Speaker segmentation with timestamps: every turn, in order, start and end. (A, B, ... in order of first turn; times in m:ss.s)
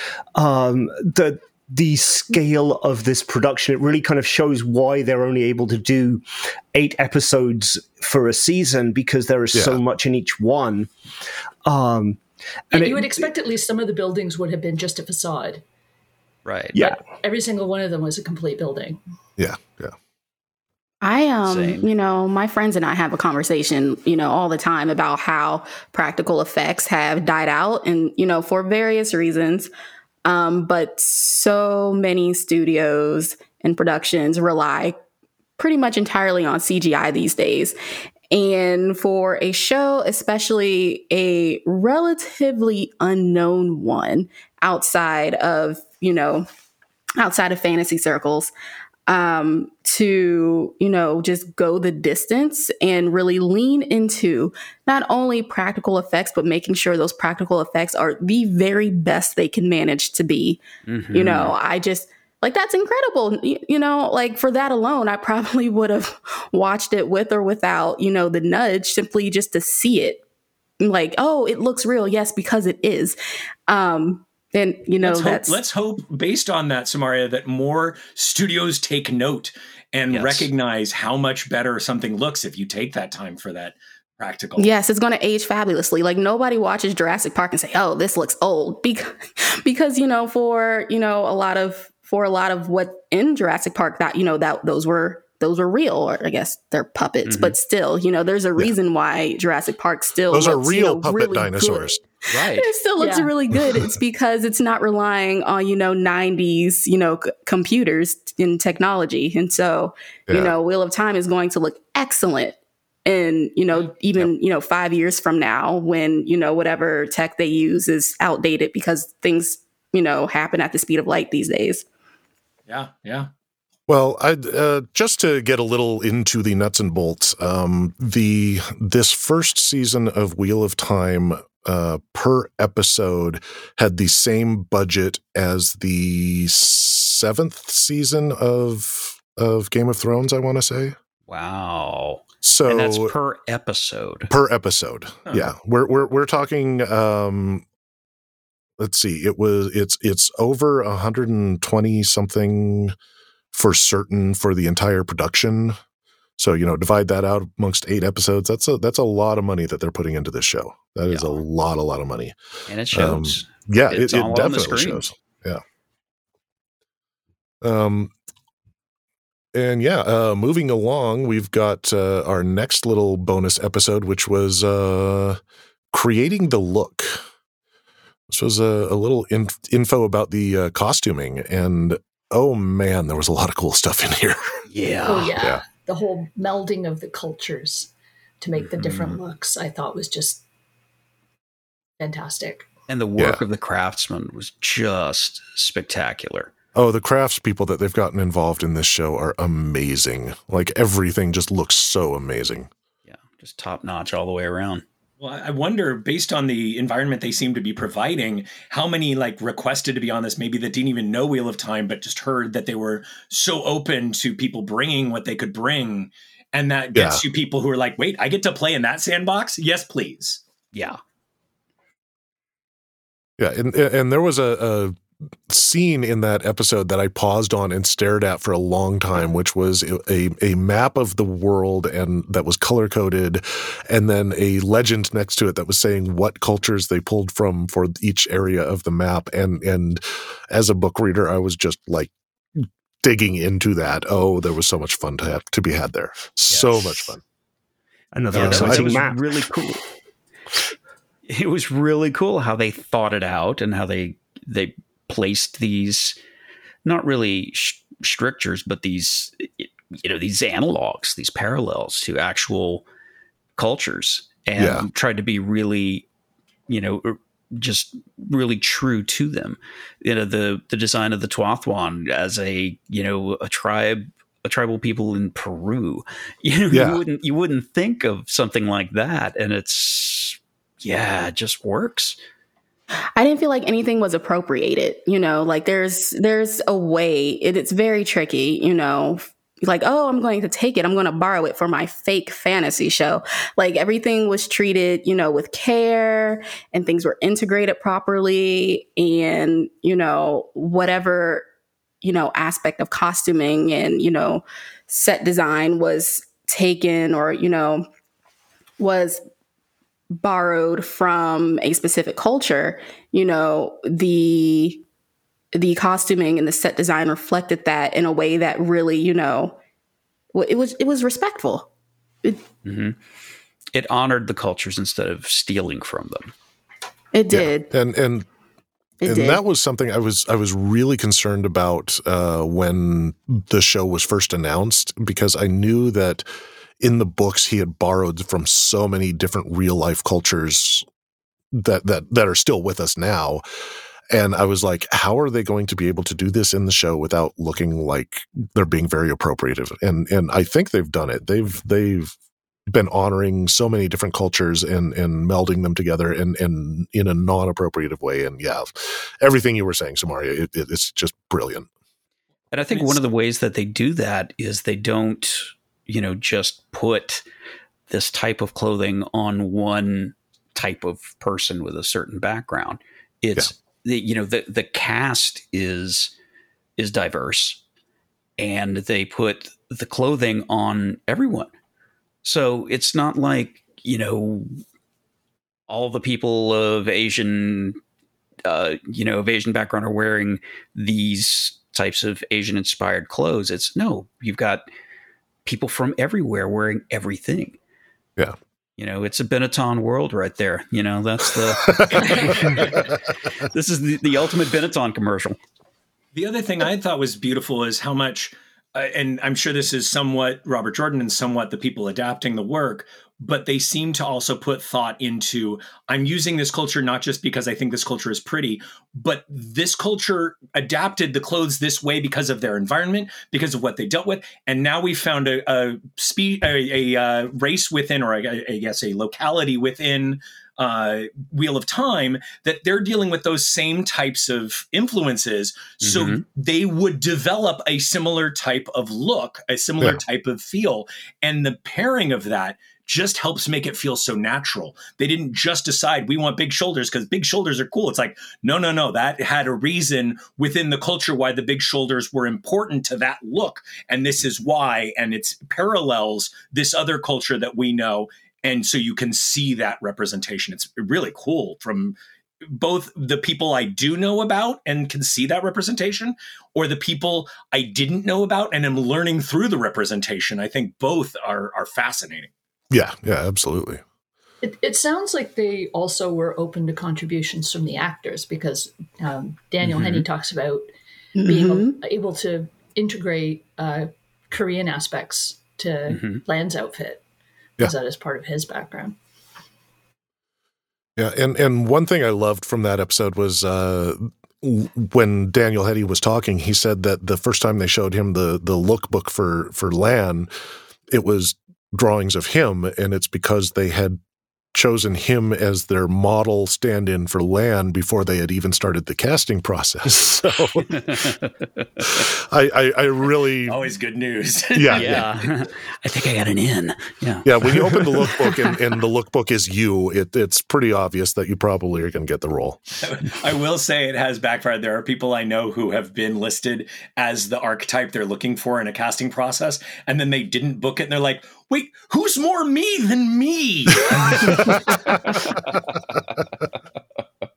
0:00.3-0:10.9 A
0:09.5-0:09.8 B
0:11.6-0:13.2 A
0:12.7-0:15.6 C
0:16.4-0:16.8 D
0:16.7-0:19.0 C
0:19.4-0:19.9 B
0:21.0-0:29.7 E
0:21.4-0:21.9 D
0:30.2-0:35.0 E
0:35.6-0:37.7 E
0:38.3-0:46.5 E
0:47.2-0:48.5 E
0:49.1-1:00.6 E
1:00.8-1:01.5 D
1:01.1-1:10.2 E
1:10.8-1:15.6 E
1:15.0-1:24.7 F
1:20.1-1:20.5 D
1:24.6-2:01.8 E
1:37.2-1:37.6 D
1:40.3-1:42.0 B
1:42.3-1:42.7 D
1:43.0-1:43.3 C
1:50.3-1:50.5 B
2:02.7-2:03.3 F
2:03.9-2:21.0 B
2:21.3-2:24.3 D
2:22.4-2:23.1 B
2:24.3-2:27.6 B
2:28.8-2:32.9 B
2:33.5-2:35.8 B
2:36.4-2:42.4 B
2:41.1-2:41.4 D
2:42.7-2:45.0 D
2:42.9-2:45.6 B
2:47.6-2:48.1 B
2:49.5-2:55.4 B
2:55.9-2:57.2 B
2:58.3-3:04.5 B
3:04.7-3:05.4 D
3:05.0-3:10.4 C
3:08.6-3:09.2 D
3:12.0-3:12.7 C
3:12.9-3:16.5 D
3:13.2-3:13.4 B
3:16.7-3:22.7 B
3:23.1-3:24.8 D
3:25.2-3:40.4 F
3:36.9-3:37.2 B
3:40.7-3:41.0 D
3:43.4-4:07.2 B
4:06.5-4:07.0 D
4:08.1-4:09.4 A
4:08.3-4:09.8 D
4:08.3-4:09.0 B
4:11.3-4:16.2 D
4:16.8-4:22.8 D
4:23.6-4:26.0 D
4:24.6-4:24.9 B
4:26.7-4:42.2 D
4:36.7-4:37.0 B
4:43.2-5:01.4 E
5:02.0-5:07.8 E
5:08.8-5:09.2 E
5:10.1-5:14.8 E
5:15.5-5:19.6 E
5:20.3-5:21.7 E
5:22.6-5:23.0 D
5:23.7-5:26.3 D
5:27.1-5:27.7 E
5:27.3-5:28.3 B
5:29.0-5:29.4 E
5:29.0-5:36.2 B
5:36.8-5:40.8 B
5:41.5-5:43.4 B
5:44.1-5:52.2 B
5:52.7-6:01.7 B
6:02.5-6:07.2 D
6:02.7-6:03.0 F
6:07.9-6:16.1 D
6:16.8-6:17.6 D
6:18.4-6:21.5 D
6:22.2-6:24.6 D
6:25.7-6:27.8 D
6:28.4-6:34.6 D
6:35.4-6:37.6 D
6:38.8-6:42.6 D
6:41.6-6:42.1 B
6:42.1-6:42.8 F
6:43.4-6:45.4 D
6:46.1-7:52.3 F
7:15.8-7:16.2 D
7:52.7-7:53.8 B
7:54.4-8:00.6 C
7:59.6-8:00.0 D
8:01.2-8:01.8 E
8:01.2-8:07.0 C
8:05.9-8:06.2 D
8:07.6-8:09.0 C
8:11.0-8:20.3 B
8:20.9-8:24.0 B
8:24.5-8:30.9 B
8:30.7-8:31.6 D
8:31.8-8:33.6 B
8:33.4-8:35.1 F
8:34.5-8:35.1 B
8:34.7-8:38.0 D
8:37.2-8:42.6 B
8:42.8-8:55.2 F